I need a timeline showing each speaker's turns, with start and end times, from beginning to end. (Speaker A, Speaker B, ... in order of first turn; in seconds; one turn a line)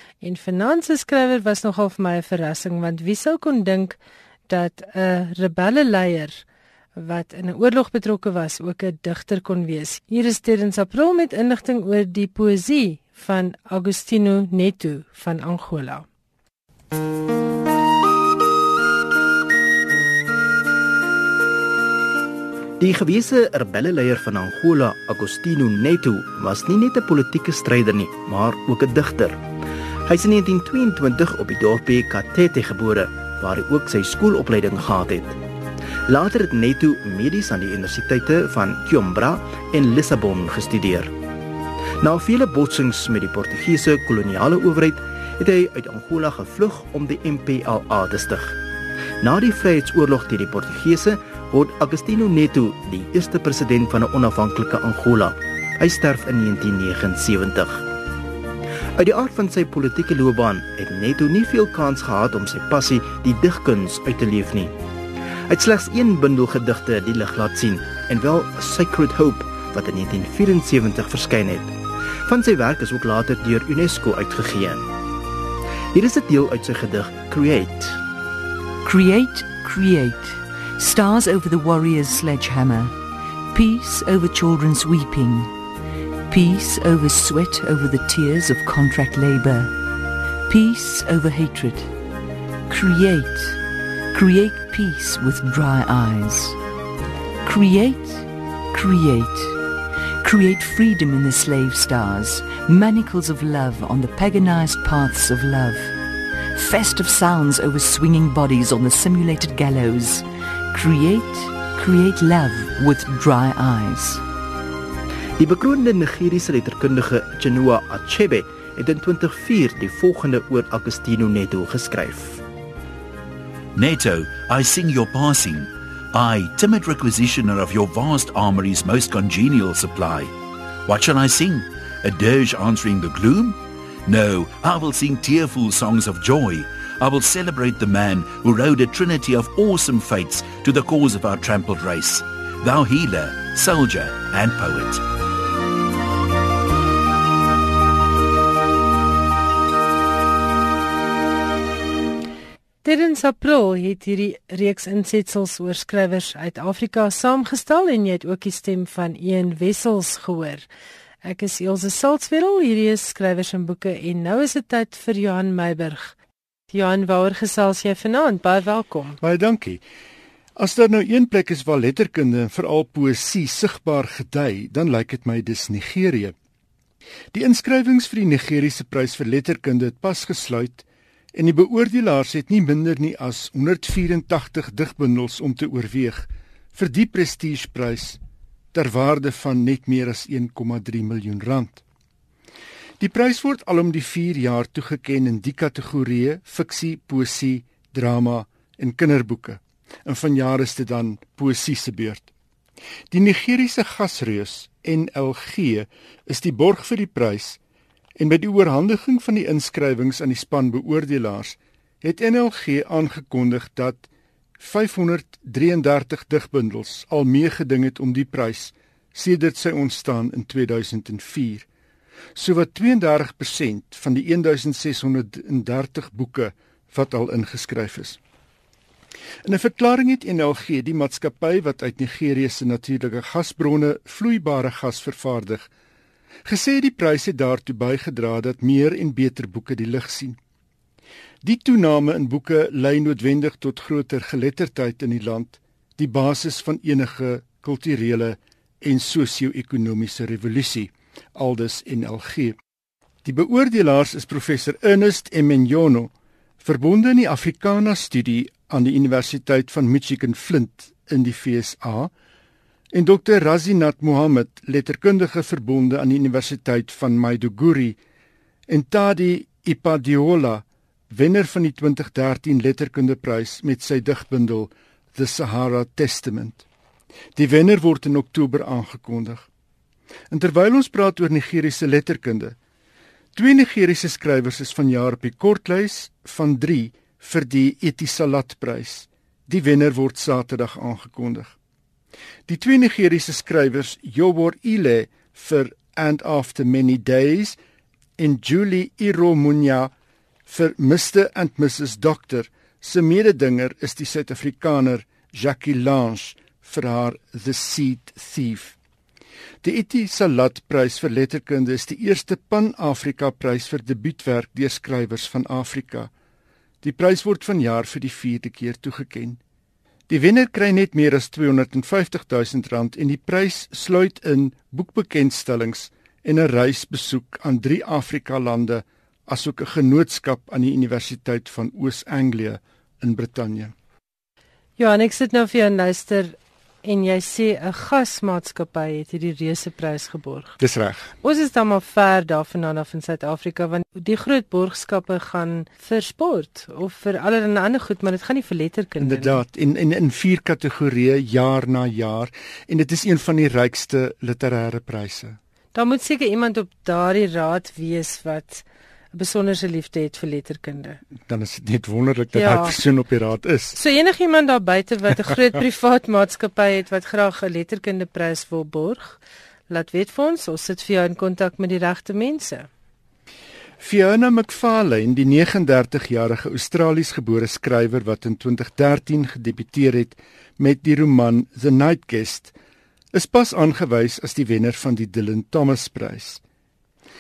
Speaker A: 0.2-4.0
Speaker A: 4.5-6.4
Speaker A: 7.0-16.1
Speaker B: 22.8-29.4
Speaker B: 30.1-35.4
Speaker B: 36.1-41.1
Speaker B: 42.0-48.6
Speaker B: 49.2-57.9
Speaker B: 59.0-64.8
Speaker B: 65.5-74.9
Speaker B: 75.9-78.0
Speaker C: 78.8-82.9
Speaker C: 83.5-85.5
Speaker C: 86.3-89.7
Speaker C: 90.5-91.9
Speaker C: 92.7-93.6
Speaker C: 94.1-96.6
Speaker C: 97.4-99.6
Speaker C: 100.2-106.0
Speaker C: 106.5-114.2
Speaker B: 115.4-122.4
Speaker D: 123.8-130.3
Speaker D: 130.9-145.0
Speaker A: 152.8-160.7
Speaker A: 161.2-166.2
Speaker A: 166.7-169.2
Speaker E: 169.2-169.8
Speaker E: 170.6-176.3
Speaker E: 177.3-188.2
Speaker E: 188.7-191.8
Speaker E: 193.0-202.3
Speaker E: 203.1-207.6
Speaker E: 208.2-214.1
Speaker E: 214.6-221.7
Speaker E: 222.3-228.2
Speaker E: 229.4-235.7
Speaker E: 236.4-240.4
Speaker E: 241.4-252.6
Speaker E: 253.2-262.1
Speaker E: 262.9-268.0
Speaker E: 268.7-276.6
Speaker E: 277.4-279.5
Speaker E: 280.3-282.6
Speaker E: 283.4-291.6
Speaker E: 292.5-297.6
Speaker E: 298.2-299.9
Speaker E: 300.5-308.8
Speaker E: 309.6-316.1
Speaker E: 316.8-319.4
Speaker E: 320.1-333.7
Speaker A: 334.8-340.6
Speaker E: 340.6-341.1
Speaker A: 341.2-349.4
Speaker E: 349.0-355.4
Speaker A: 355.8-361.0
Speaker E: 361.3-363.8
Speaker A: 362.3-362.8
Speaker A: 363.7-372.7
Speaker E: 373.8-382.5
Speaker E: 383.1-386.4